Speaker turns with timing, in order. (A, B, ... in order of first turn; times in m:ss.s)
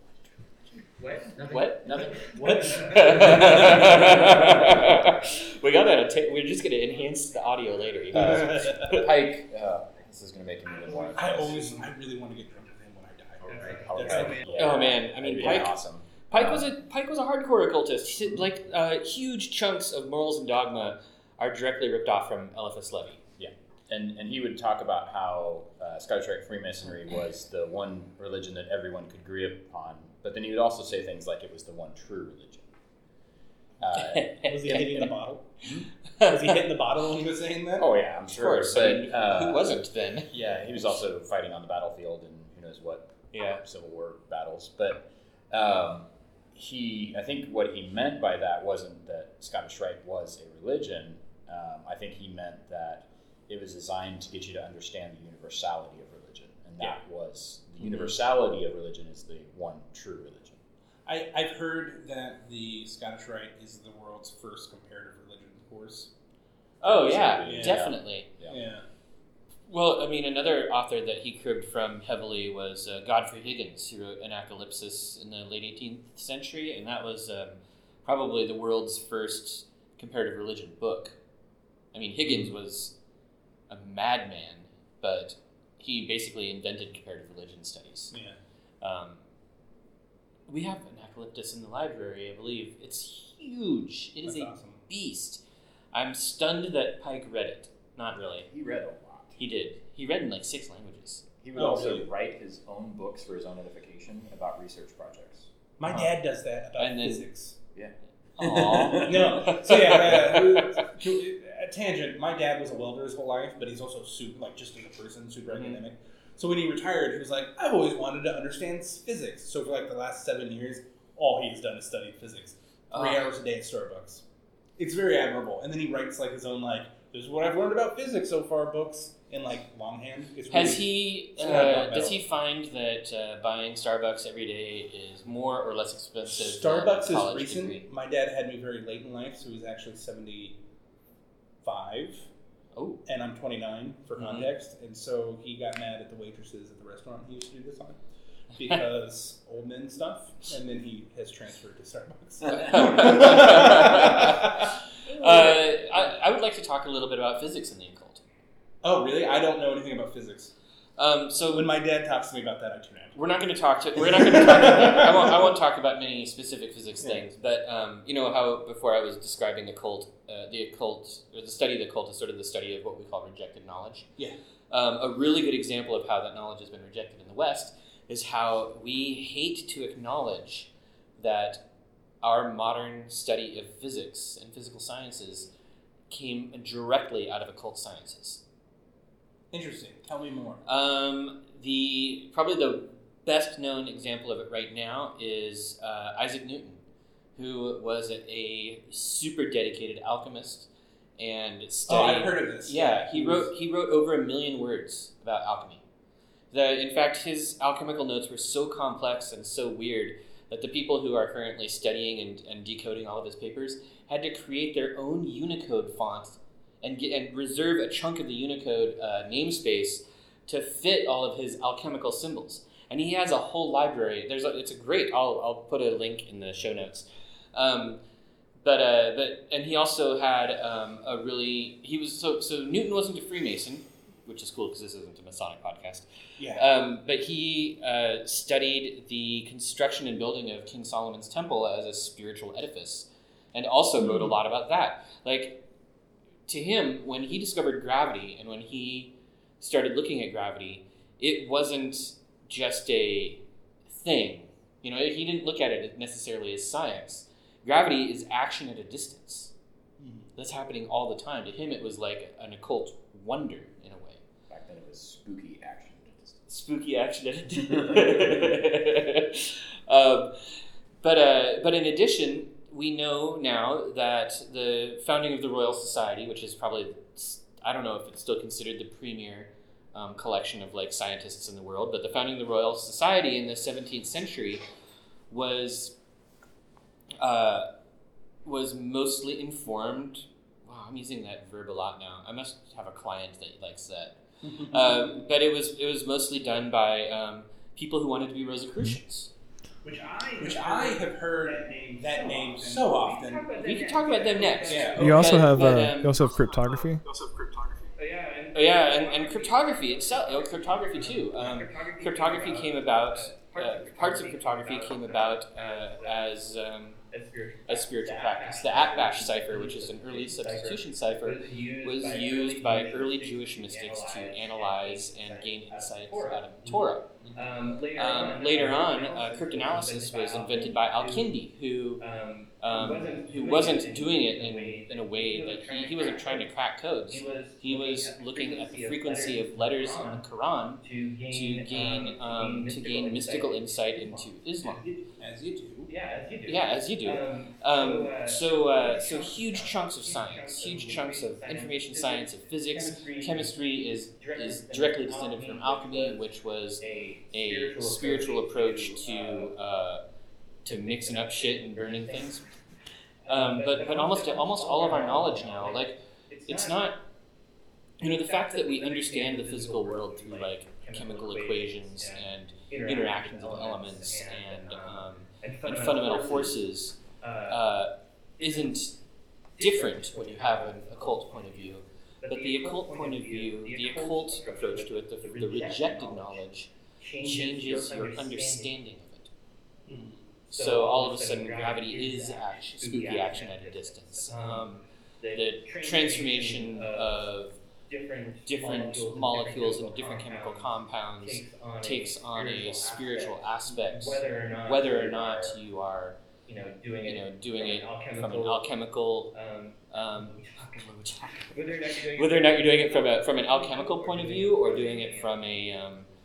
0:01.0-0:05.4 A
0:01.5-0:09.0 B
0:02.4-0:04.1 C
0:06.6-0:07.4 A
0:08.1-0:11.5 D
0:08.6-0:08.8 C
0:10.6-0:11.2 A
0:10.8-0:11.9 E
0:11.2-0:14.5 C
0:13.4-0:14.6 E
0:13.5-0:16.7 D
0:13.5-0:14.2 A
0:14.5-0:23.2 B
0:23.4-0:32.7 D
0:33.8-0:34.4 D
0:33.9-0:35.1 B
0:34.4-0:35.6 C
0:36.2-0:36.6 B
0:36.2-0:37.9 C
0:37.8-1:00.6 D
0:38.3-0:40.3 B
0:43.3-0:43.6 B
1:01.1-1:06.1 C
1:06.8-1:08.3 B
1:06.8-1:08.6 D
1:07.4-1:08.0 C
1:08.5-1:08.8 C
1:09.7-1:21.2 B
1:21.9-1:22.9 B
1:23.7-1:28.1 B
1:28.1-1:28.4 C
1:28.8-1:29.2 B
1:30.5-1:35.4 B
1:34.2-1:34.8 C
1:35.9-1:38.5 B
1:38.1-1:39.4 D
1:39.4-1:41.2 B
1:41.4-1:45.5 D
1:41.6-1:42.1 C
1:45.8-1:47.6 C
1:45.9-1:46.1 B
1:46.8-1:47.3 B
1:47.8-1:49.4 D
1:48.4-1:50.8 B
1:49.0-2:04.2 C
1:55.5-1:55.8 B
2:02.9-2:03.3 B
2:04.8-2:12.2 C
2:10.5-2:17.8 B
2:16.3-2:20.6 C
2:21.6-2:22.3 C
2:22.8-2:23.0 B
2:23.1-2:28.0 C
2:24.2-2:24.5 B
2:28.5-2:35.6 C
2:32.5-2:38.2 B
2:38.8-2:40.5 C
2:41.0-2:41.7 B
2:41.5-2:43.2 C
2:43.2-2:54.1 B
2:44.0-2:45.5 C
2:54.7-3:01.6 B
3:02.2-3:05.5 B
3:06.1-3:08.4 B
3:09.5-3:10.6 C
3:10.6-3:16.8 B
3:17.4-3:25.8 B
3:21.9-3:23.5 C
3:26.5-3:48.0 B
3:48.6-4:05.6 B
3:56.4-3:56.7 C
4:04.0-4:04.3 C
4:06.5-4:19.5 B
4:20.0-4:20.3 C
4:20.4-4:24.2 B
4:24.5-4:26.5 D
4:26.5-4:30.4 B
4:27.7-4:28.6 D
4:31.0-4:44.6 B
4:45.3-4:46.0 B
4:47.2-4:47.7 B
4:48.4-4:59.3 B
4:54.4-4:55.2 C
4:59.8-5:03.1 E
5:00.4-5:03.4 C
5:03.0-5:05.3 A
5:03.6-5:06.2 B
5:04.6-5:04.9 E
5:04.7-5:05.7 C
5:05.0-5:07.0 F
5:08.0-5:16.4 A
5:08.5-5:17.0 B
5:17.1-5:31.4 A
5:17.7-5:27.1 B
5:27.2-5:27.5 C
5:28.0-5:32.0 B
5:32.0-5:36.5 A
5:32.6-5:44.8 B
5:37.1-5:40.2 A
5:40.8-5:44.9 A
5:45.2-5:45.9 C
5:45.9-5:53.6 A
5:46.5-6:00.0 B
5:54.2-5:56.3 A
5:56.8-5:59.5 A
6:00.6-6:02.4 B
6:00.7-6:02.3 A
6:03.2-6:06.9 A
6:03.3-6:07.0 B
6:08.0-6:18.9 B
6:08.0-6:16.6 A
6:17.2-6:17.7 A
6:18.4-6:18.8 A
6:19.6-6:26.4 A
6:19.6-6:29.3 B
6:27.0-6:28.7 A
6:29.9-6:30.2 C
6:30.5-6:34.8 B
6:30.5-6:37.3 A
6:35.3-6:37.6 B
6:37.9-6:45.6 A
6:38.4-6:46.2 B
6:46.5-6:48.6 A
6:47.0-6:49.3 B
6:49.3-6:55.5 A
6:49.9-6:56.1 B